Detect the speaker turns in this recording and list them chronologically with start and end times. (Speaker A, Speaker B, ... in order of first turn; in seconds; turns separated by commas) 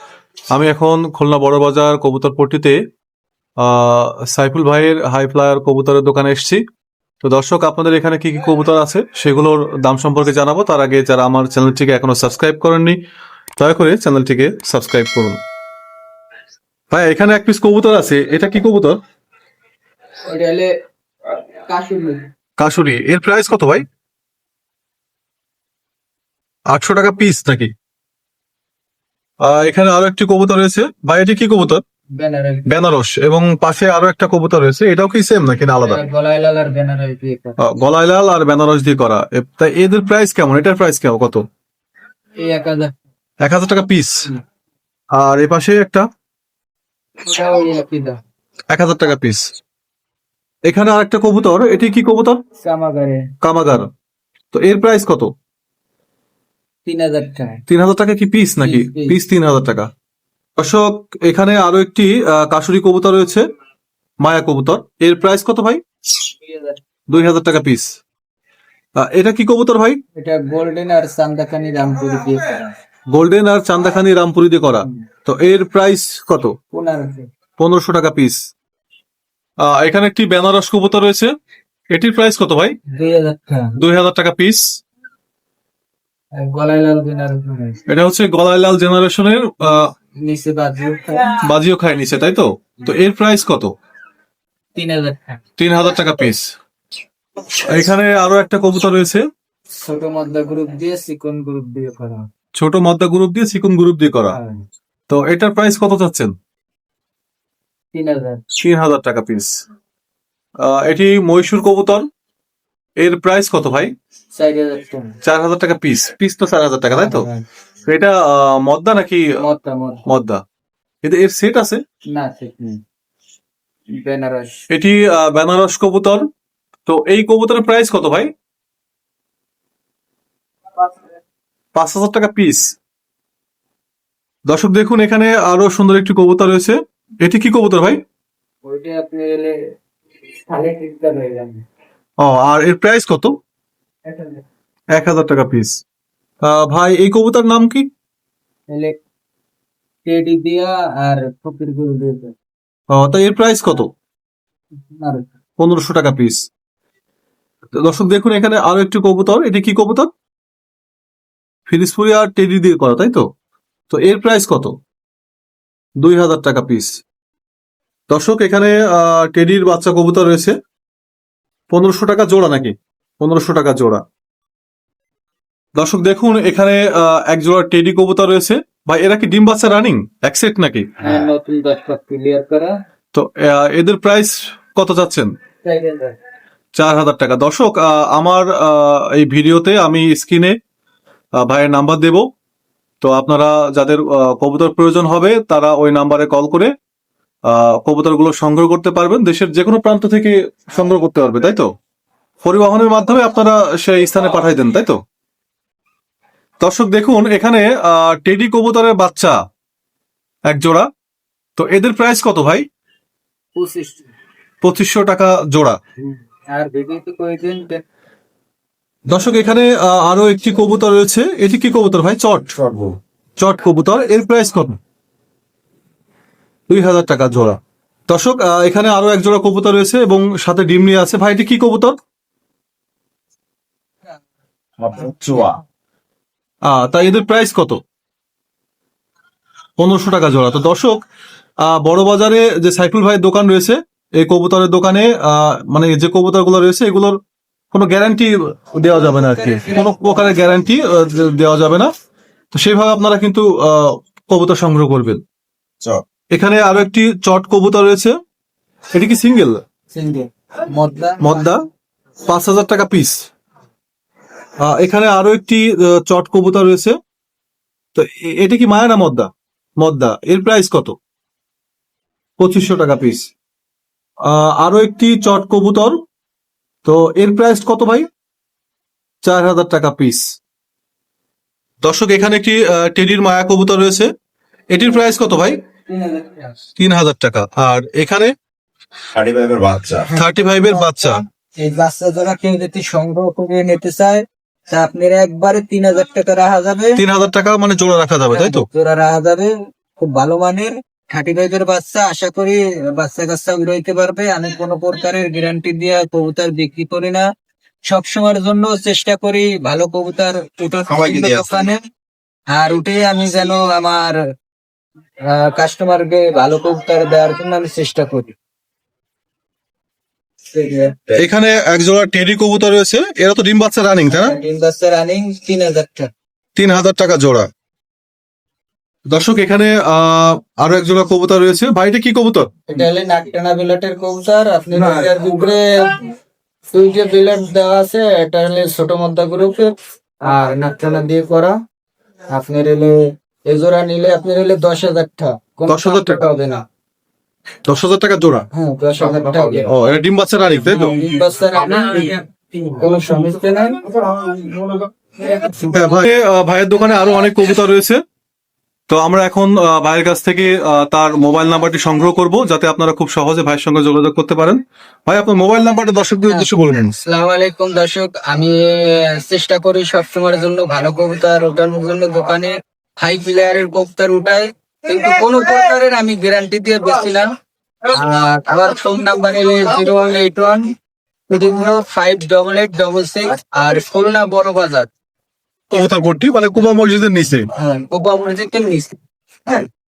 Speaker A: 0.5-2.8, Speaker A: 3.6-6.6, Speaker A: 7.2-13.0, Speaker A: 13.6-15.4, Speaker A: 16.9-19.0, Speaker B: 20.2-20.7, Speaker B: 21.3-22.3, Speaker A: 22.6-23.9, Speaker A: 26.7-27.7, Speaker A: 29.4-31.8, Speaker B: 32.2-32.7, Speaker A: 32.7-36.0, Speaker B: 35.8-37.6, Speaker A: 37.6-41.4, Speaker B: 42.4-42.9, Speaker A: 43.5-44.3, Speaker A: 45.2-46.0, Speaker B: 47.2-48.2, Speaker A: 48.7-49.4, Speaker A: 50.7-52.4, Speaker B: 52.6-53.3, Speaker A: 53.4-53.9, Speaker A: 54.5-55.3, Speaker B: 56.9-57.6, Speaker A: 57.7-59.9, Speaker B: 58.6-59.2, Speaker A: 60.6-63.4, Speaker A: 64.2-65.8, Speaker B: 66.4-66.8, Speaker A: 67.1-68.0, Speaker A: 69.0-70.0, Speaker B: 70.2-72.8, Speaker A: 73.1-76.5, Speaker B: 76.7-77.3, Speaker A: 77.6-78.4, Speaker A: 79.6-81.3, Speaker A: 81.9-82.8, Speaker B: 82.9-83.8, Speaker A: 83.8-84.6, Speaker B: 86.3-87.8, Speaker A: 87.9-89.9, Speaker B: 89.7-91.3, Speaker A: 91.3-93.7, Speaker B: 94.8-95.4, Speaker A: 95.6-96.5, Speaker A: 97.5-99.2, Speaker B: 99.8-102.3, Speaker A: 102.6-104.4, Speaker B: 104.3-104.7, Speaker A: 105.1-106.3, Speaker B: 107.9-108.4, Speaker A: 108.6-109.5, Speaker A: 110.6-112.1, Speaker A: 113.0-113.9, Speaker B: 114.4-115.2, Speaker A: 115.2-117.3, Speaker B: 116.9-117.4, Speaker A: 117.9-119.3, Speaker B: 119.4-120.1, Speaker A: 120.1-120.4, Speaker A: 121.0-121.8, Speaker B: 122.1-122.8, Speaker B: 124.0-124.6, Speaker A: 124.7-126.2, Speaker A: 126.9-128.3, Speaker A: 131.8-132.7, Speaker A: 134.5-138.0, Speaker B: 138.6-139.6, Speaker B: 140.4-141.7, Speaker A: 142.2-143.3, Speaker B: 144.1-144.4, Speaker A: 144.9-145.8, Speaker A: 146.4-147.9, Speaker B: 148.7-149.0, Speaker B: 150.1-152.3, Speaker A: 152.9-153.9, Speaker B: 154.9-155.3, Speaker A: 155.6-156.4, Speaker A: 157.8-160.1, Speaker A: 161.7-163.3, Speaker A: 163.9-164.7, Speaker A: 166.0-167.0, Speaker A: 168.1-170.6, Speaker A: 171.7-174.0, Speaker A: 175.8-181.2, Speaker B: 181.0-182.8, Speaker A: 183.1-185.3, Speaker B: 185.7-186.2, Speaker A: 186.8-190.6, Speaker A: 191.4-192.3, Speaker A: 193.0-196.7, Speaker A: 197.5-201.7, Speaker A: 202.4-205.0, Speaker A: 206.6-209.4, Speaker A: 210.5-210.9, Speaker A: 211.6-212.6, Speaker B: 213.6-214.1, Speaker A: 214.6-215.8, Speaker B: 216.0-217.8, Speaker A: 219.1-222.6, Speaker A: 223.4-224.8, Speaker A: 226.7-232.0, Speaker C: 234.8-235.6, Speaker B: 235.2-235.5, Speaker A: 236.7-237.8, Speaker A: 239.8-241.0, Speaker A: 241.7-247.2, Speaker A: 247.7-251.9, Speaker B: 248.8-250.5, Speaker A: 252.5-255.2, Speaker A: 256.3-258.1, Speaker A: 258.9-259.6, Speaker B: 259.9-261.6, Speaker A: 261.2-261.6, Speaker A: 262.3-263.2, Speaker A: 264.6-267.0, Speaker A: 267.9-271.0, Speaker A: 272.4-273.3, Speaker A: 274.2-276.0, Speaker A: 276.8-278.1, Speaker A: 279.2-280.3, Speaker A: 281.8-284.1, Speaker A: 284.7-285.6, Speaker B: 285.9-286.6, Speaker A: 286.8-288.3, Speaker C: 289.1-290.1, Speaker B: 290.1-297.0, Speaker A: 290.1-291.2, Speaker A: 297.0-298.7, Speaker B: 298.3-307.2, Speaker B: 307.9-311.8, Speaker C: 310.9-311.5, Speaker B: 312.5-314.2, Speaker B: 315.3-318.3, Speaker B: 320.5-321.0, Speaker A: 321.1-324.4, Speaker B: 324.1-326.1, Speaker A: 326.6-327.5, Speaker A: 329.1-332.5, Speaker B: 332.7-336.1, Speaker B: 336.7-339.7, Speaker B: 340.2-341.6, Speaker B: 342.3-346.6, Speaker A: 345.7-346.2, Speaker A: 347.7-348.5, Speaker B: 348.5-349.7, Speaker A: 349.6-351.0, Speaker B: 350.9-353.9, Speaker B: 355.2-355.6, Speaker A: 355.6-358.0, Speaker A: 358.9-367.0, Speaker B: 367.1-377.3, Speaker B: 377.9-380.7, Speaker B: 381.3-384.9, Speaker A: 385.7-387.5, Speaker B: 387.6-389.0